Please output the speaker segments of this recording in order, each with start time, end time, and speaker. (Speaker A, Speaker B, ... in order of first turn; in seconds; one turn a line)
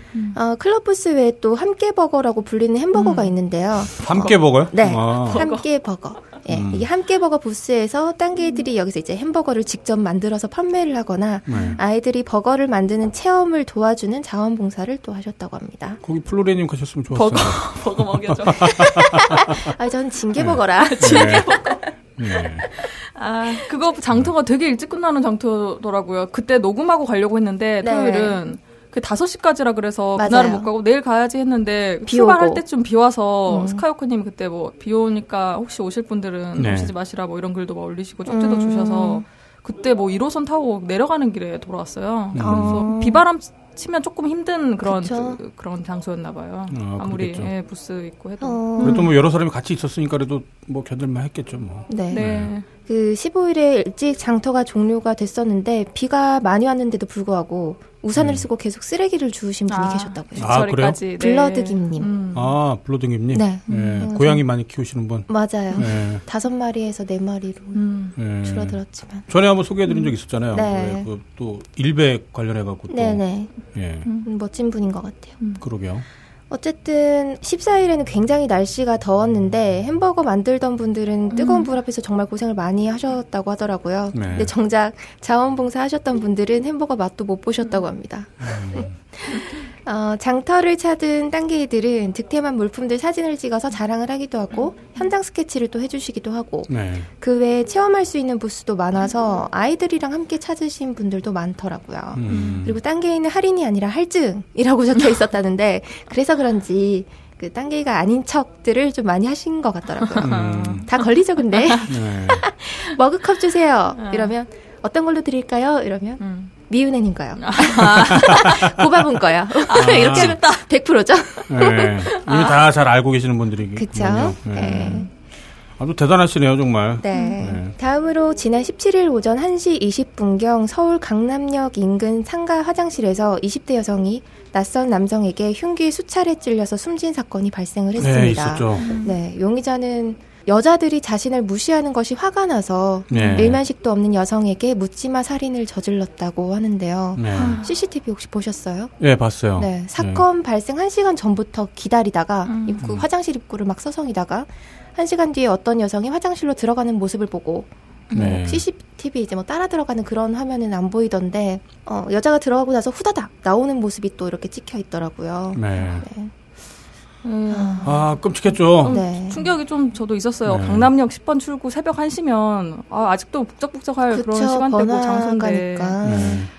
Speaker A: 0.3-16.0
Speaker B: 2.9-3.3
Speaker C: 4.0-5.5
Speaker B: 5.3-5.7
Speaker C: 6.5-6.8
Speaker C: 11.5-11.8
Speaker B: 11.5-11.8
Speaker C: 16.0-19.7
Speaker B: 17.1-19.0
Speaker A: 18.7-21.5
Speaker C: 20.4-21.5
Speaker B: 20.8-21.9
Speaker C: 22.2-22.6
Speaker B: 22.8-49.1
Speaker A: 27.8-28.4
Speaker A: 30.1-30.7
Speaker A: 32.1-32.6
Speaker A: 33.5-33.8
Speaker C: 36.5-36.9
Speaker A: 38.2-39.2
Speaker C: 42.3-42.9
Speaker A: 42.4-43.2
Speaker A: 44.8-45.4
Speaker C: 46.7-47.5
Speaker A: 48.4-49.1
Speaker C: 48.8-52.5
Speaker A: 51.9-60.6
Speaker B: 52.1-52.6
Speaker C: 58.1-58.5
Speaker B: 59.7-62.5
Speaker C: 60.4-61.0
Speaker A: 61.1-62.1
Speaker C: 62.3-66.2
Speaker A: 63.3-64.4
Speaker B: 63.7-64.1
Speaker A: 65.3-69.3
Speaker B: 67.7-68.2
Speaker C: 68.2-74.0
Speaker B: 69.8-70.1
Speaker A: 70.5-71.1
Speaker A: 72.9-73.7
Speaker A: 74.2-75.4
Speaker C: 75.6-76.0
Speaker A: 76.5-122.0
Speaker B: 81.3-81.7
Speaker C: 84.1-84.5
Speaker C: 88.4-88.9
Speaker B: 89.3-89.6
Speaker C: 96.7-97.1
Speaker C: 102.1-102.8
Speaker B: 102.3-102.6
Speaker B: 110.0-111.0
Speaker C: 110.2-110.9
Speaker B: 111.6-111.9
Speaker C: 111.9-112.4
Speaker B: 114.0-114.3
Speaker B: 116.2-116.5
Speaker B: 117.4-118.7
Speaker C: 118.1-118.4
Speaker B: 119.6-120.6
Speaker C: 119.7-120.3
Speaker B: 121.3-122.6
Speaker C: 121.5-125.1
Speaker A: 123.7-125.1
Speaker C: 125.8-127.7
Speaker A: 127.0-148.9
Speaker B: 127.1-127.4
Speaker C: 138.0-138.9
Speaker B: 138.8-139.1
Speaker B: 143.1-143.5
Speaker C: 143.1-143.6
Speaker C: 147.2-147.6
Speaker B: 147.3-147.7
Speaker C: 149.0-150.2
Speaker A: 149.6-166.3
Speaker B: 152.4-152.8
Speaker B: 158.1-158.4
Speaker C: 158.1-158.6
Speaker C: 165.5-166.0
Speaker A: 167.2-168.0
Speaker B: 167.5-167.9
Speaker C: 167.8-169.0
Speaker B: 168.8-175.9
Speaker A: 168.8-169.5
Speaker C: 170.4-170.9
Speaker A: 174.1-176.5
Speaker C: 176.0-176.5